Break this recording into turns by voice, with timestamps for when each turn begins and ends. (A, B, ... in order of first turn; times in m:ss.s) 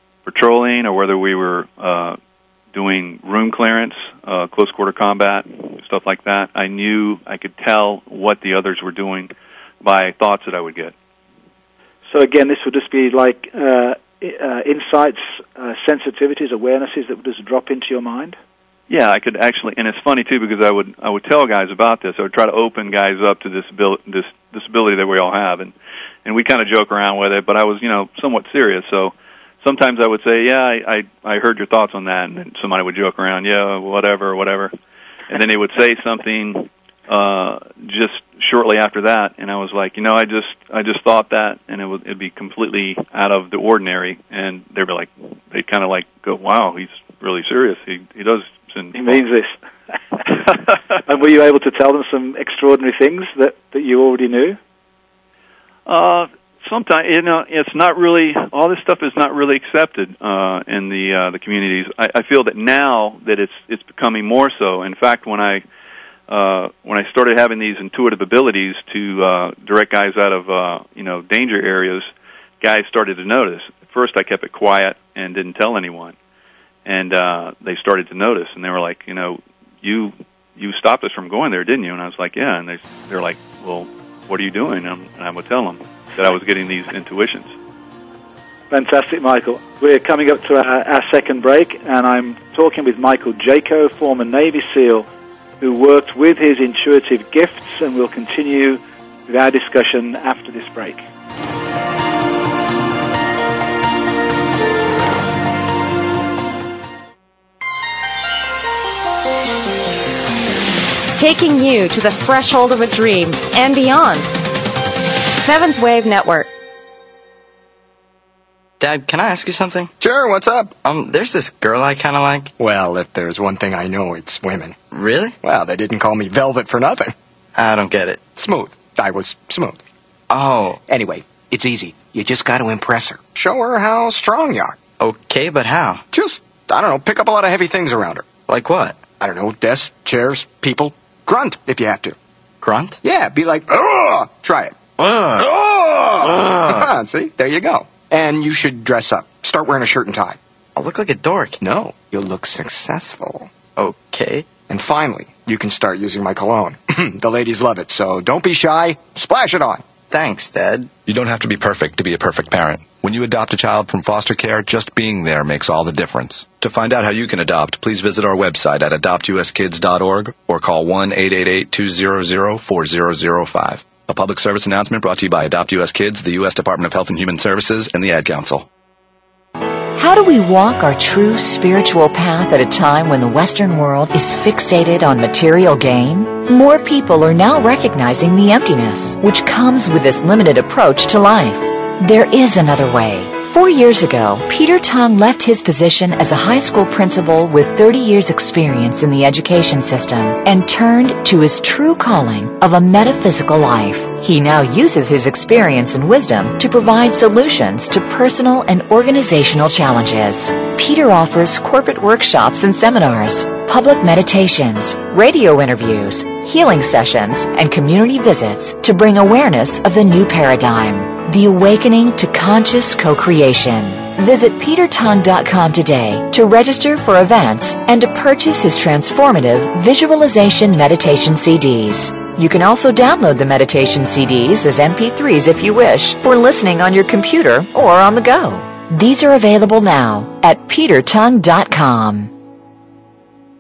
0:00.2-0:02.2 A
0:02.7-0:10.9 A
0:12.1-0:18.4 B
0:18.9-0:25.7 A
0:26.2-0:34.7 A
0:35.3-0:49.2 A
0:49.0-0:49.6 B
0:50.1-0:54.6 B
0:55.9-1:05.6 A
1:06.3-1:12.1 A
1:12.6-1:16.2 A
1:16.8-1:27.5 A
1:28.7-1:35.1 B
1:35.6-1:41.0 B
1:51.2-1:54.3 C
1:55.3-1:56.5 C
1:58.8-1:59.9 D
2:00.0-2:00.7 E
2:00.8-2:02.5 D
2:02.6-2:04.8 E
2:04.9-2:05.4 D
2:05.4-2:07.1 E
2:07.6-2:08.2 D
2:08.3-2:09.8 E
2:10.3-2:10.8 D
2:10.9-2:14.8 E
2:15.0-2:16.0 D
2:16.1-2:18.3 E
2:18.5-2:19.1 D
2:19.2-2:22.2 E
2:22.6-2:23.0 D
2:23.0-2:24.8 E
2:25.0-2:25.5 D
2:25.4-2:30.4 E
2:26.2-2:26.9 D
2:30.8-2:31.6 D
2:31.6-2:33.5 E
2:33.8-2:34.5 D
2:34.6-2:39.8 E
2:40.1-2:40.9 D
2:41.0-2:58.6 F
3:00.0-4:02.3 G